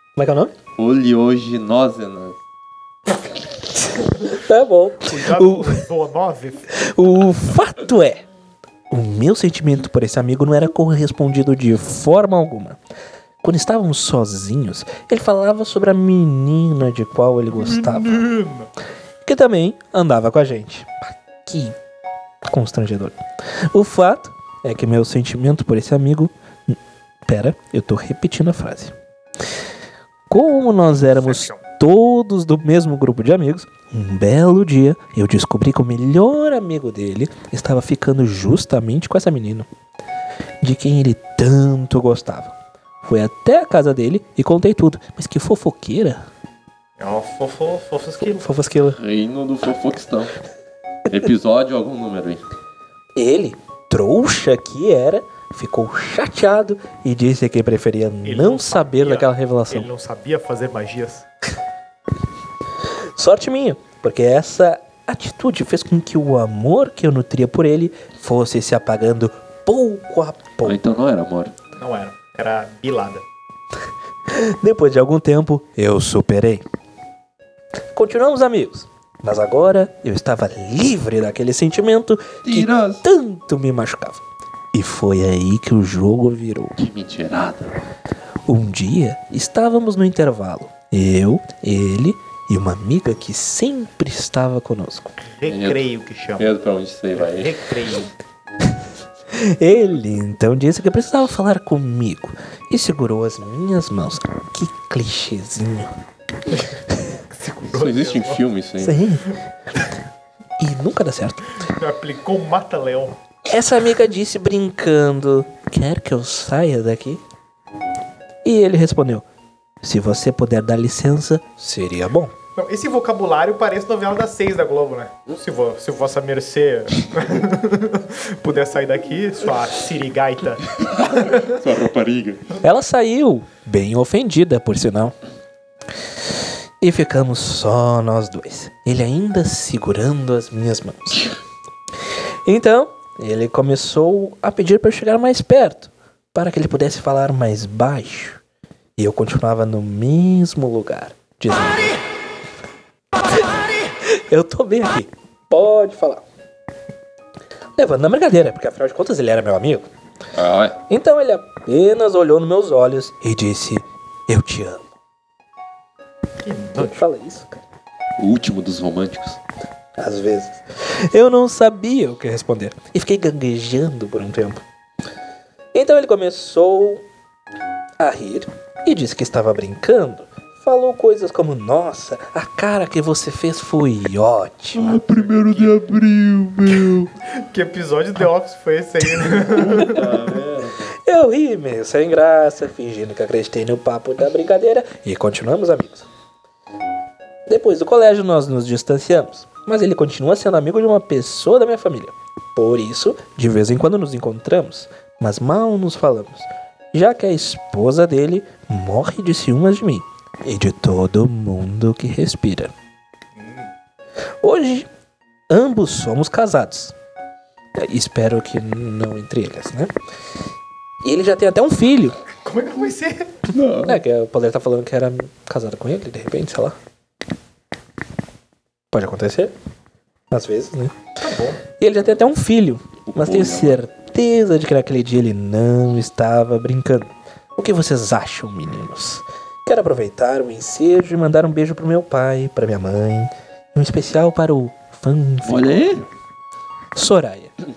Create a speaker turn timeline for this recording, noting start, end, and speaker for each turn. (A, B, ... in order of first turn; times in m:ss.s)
0:00.2-0:00.5 A
0:00.8-0:02.4 B
0:04.0-0:05.9 A
0:05.0-0:06.7 C
0:06.7-0:08.2 A
0:08.9-0:12.8 A
0:13.4-0:18.2 A
0:17.5-0:18.7 C
0:19.2-0:21.8 A
0:22.5-0:29.0 A
0:30.3-0:39.7 A
0:30.9-0:31.6 C
0:40.6-0:46.2 A
0:47.0-0:48.4 C
0:48.2-0:49.0 A
0:49.0-0:50.3 B
0:51.1-0:52.4 B
0:53.2-0:59.9 A
0:58.2-1:01.3 C
1:02.9-1:10.8 A
1:10.6-1:11.6 B
1:11.8-1:13.2 C
1:14.3-1:16.6 A
1:17.9-1:24.2 A
1:22.4-1:23.0 B
1:24.7-1:26.8 A
1:26.8-1:27.8 B
1:28.5-1:35.1 A
1:35.4-1:36.5 C
1:35.5-1:35.8 B
1:36.4-1:37.6 B
1:37.2-1:38.1 C
1:39.3-1:45.9 A
1:47.3-1:48.4 C
1:47.7-1:49.0 B
1:48.8-1:49.4 A
1:50.6-1:51.6 A
1:51.6-1:53.2 C
1:53.5-1:57.2 A
1:58.4-1:59.2 A
1:59.8-2:02.3 A
2:02.6-2:11.6 C
2:10.8-2:12.5 B
2:12.6-2:15.2 A
2:16.8-2:21.3 A
2:22.4-2:28.4 A
2:29.0-2:32.0 A
2:33.6-2:36.2 A
2:37.8-2:39.9 A
2:40.3-2:40.8 B
2:40.9-2:44.8 A
2:46.4-2:47.0 C
2:46.8-2:47.6 A
2:48.2-2:49.4 B
2:50.0-2:54.6 A
2:55.7-2:57.0 A
2:58.0-3:05.0 A
3:04.8-3:07.1 B
3:04.9-3:05.8 C
3:07.4-3:10.2 C
3:09.4-3:10.9 B
3:11.0-3:16.1 A
3:17.5-3:32.7 A
3:33.4-3:33.7 C
3:34.4-3:34.9 A
3:35.5-3:37.0 A
3:37.8-3:39.9 A
3:41.0-3:42.2 A
3:42.4-3:43.4 C
3:43.5-3:44.0 B
3:43.9-3:46.8 A
3:48.9-3:49.5 A
3:50.3-3:50.9 A
3:51.2-3:51.6 C
3:51.8-4:05.9 A
3:53.2-3:53.8 B
4:05.4-4:06.0 B
4:07.0-4:07.5 A